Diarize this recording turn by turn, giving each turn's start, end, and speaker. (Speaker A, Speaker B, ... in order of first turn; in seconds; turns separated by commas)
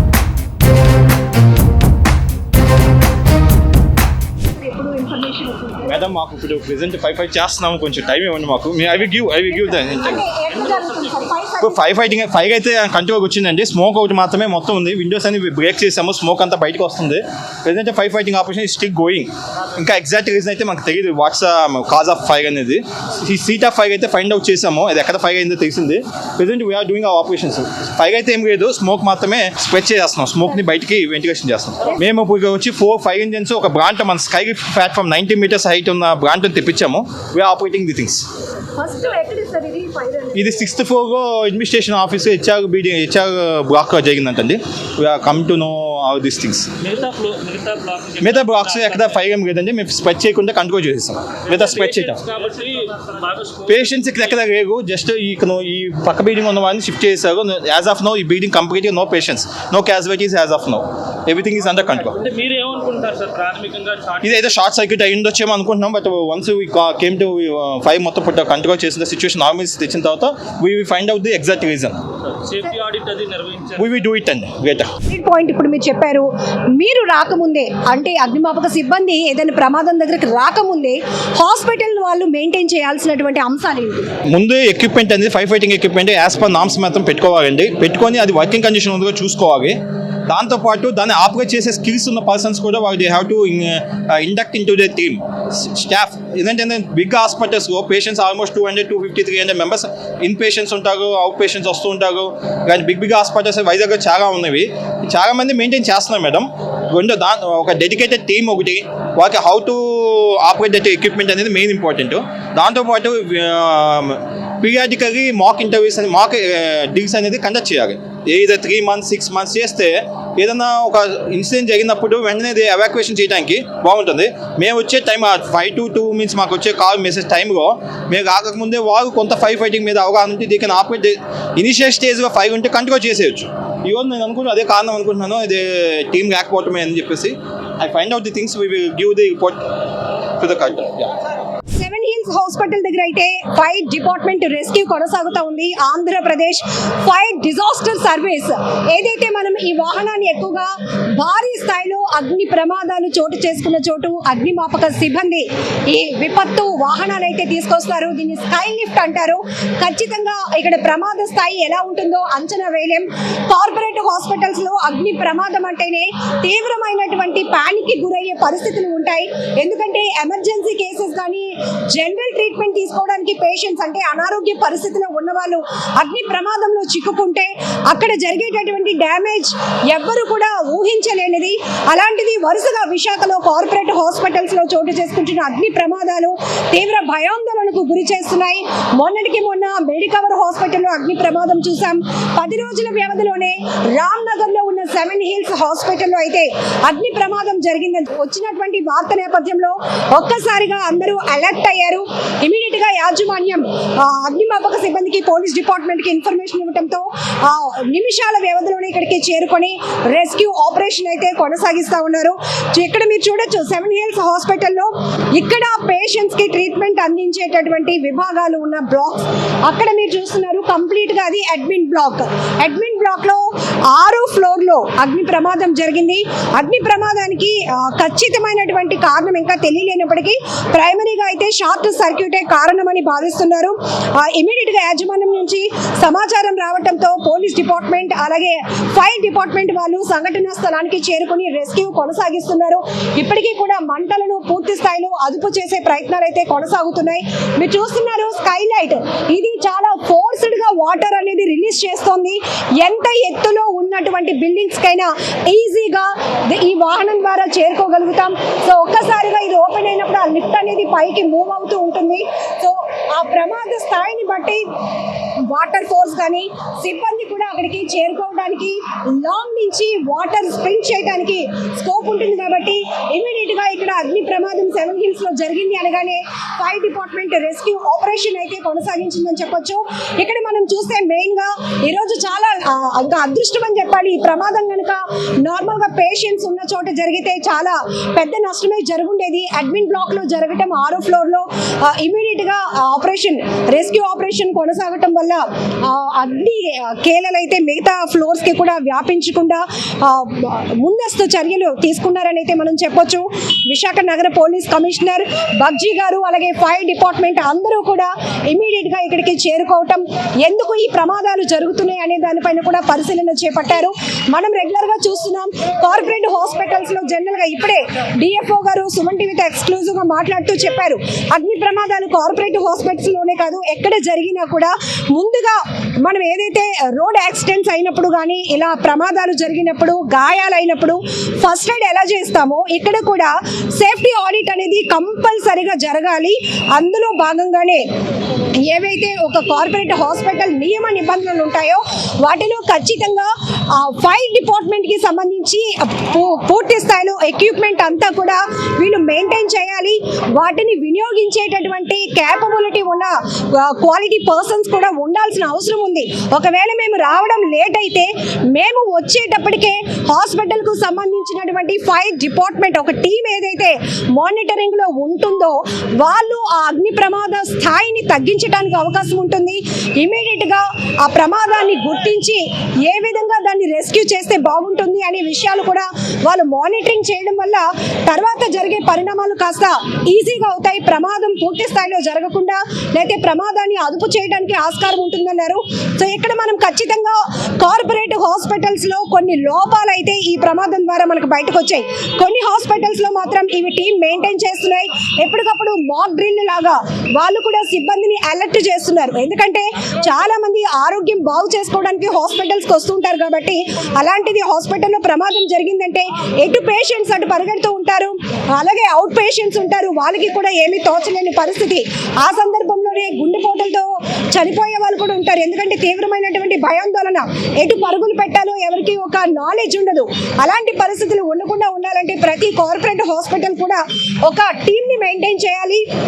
Speaker A: 4.6-5.9, Speaker B: 5.8-10.2, Speaker A: 9.5-12.0, Speaker C: 10.6-11.2, Speaker B: 11.6-38.3, Speaker A: 38.8-40.7, Speaker B: 40.3-46.7, Speaker C: 46.8-49.2, Speaker B: 48.2-52.2, Speaker C: 51.5-54.3, Speaker B: 53.7-62.2, Speaker C: 62.1-64.4, Speaker B: 64.2-72.1, Speaker C: 72.3-73.9, Speaker B: 73.8-74.9, Speaker A: 75.1-84.1, Speaker B: 84.3-139.7, Speaker B: 140.4-141.1, Speaker A: 141.7-264.6, Speaker A: 265.5-337.8, Speaker A: 338.7-425.8